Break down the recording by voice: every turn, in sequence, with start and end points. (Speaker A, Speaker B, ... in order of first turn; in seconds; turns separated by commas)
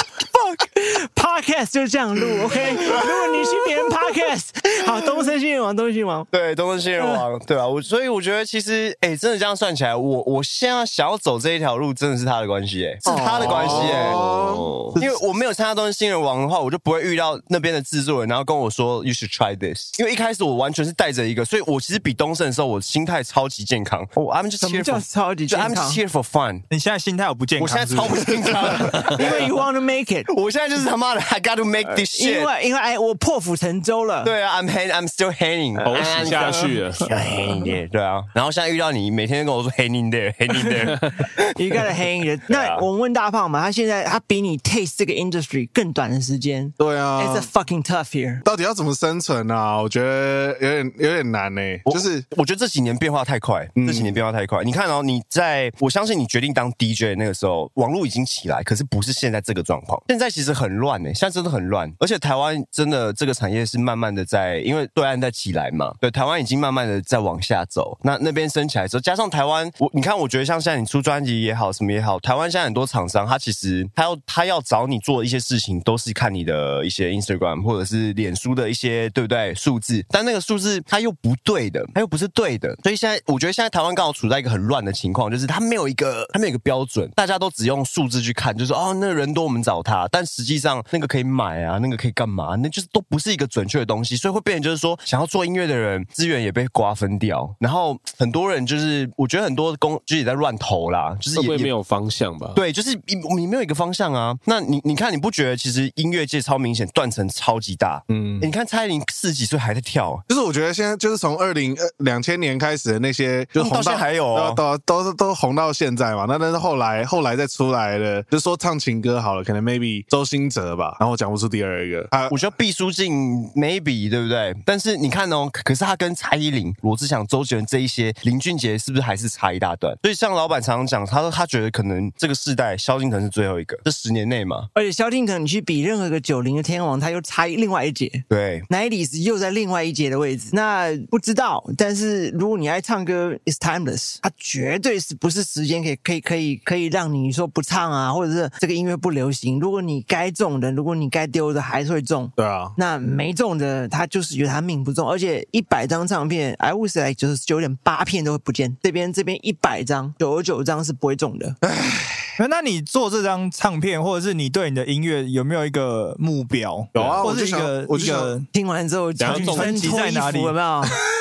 Speaker A: 0.5-6.3, Speaker B: 6.3-14.2, Speaker A: 13.0-13.5, Speaker C: 13.4-14.8, Speaker D: 13.4-14.9, Speaker B: 15.0-26.6, Speaker A: 24.6-26.0, Speaker E: 26.7-28.2, Speaker B: 27.6-29.5, Speaker C: 28.1-29.0, Speaker A: 29.0-30.3, Speaker B: 30.3-32.5, Speaker A: 31.9-34.3, Speaker B: 34.2-41.8, Speaker A: 35.8-37.7, Speaker D: 35.9-37.1, Speaker A: 41.4-48.4, Speaker B: 42.5-42.9, Speaker C: 46.8-47.5, Speaker C: 48.4-52.2, Speaker B: 51.9-101.7, Speaker C: 53.8-54.1, Speaker D: 101.3-102.6, Speaker B: 102.5-110.2, Speaker C: 108.1-108.5, Speaker C: 110.3-122.4, Speaker B: 113.5-114.6, Speaker B: 122.3-134.7, Speaker A: 134.7-161.6, Speaker B: 138.3-138.7, Speaker C: 152.3-152.8, Speaker C: 161.6-162.3, Speaker E: 162.4-168.5, Speaker D: 166.9-167.2, Speaker C: 166.9-168.3, Speaker A: 168.0-171.0, Speaker D: 169.2-169.7, Speaker E: 169.2-170.6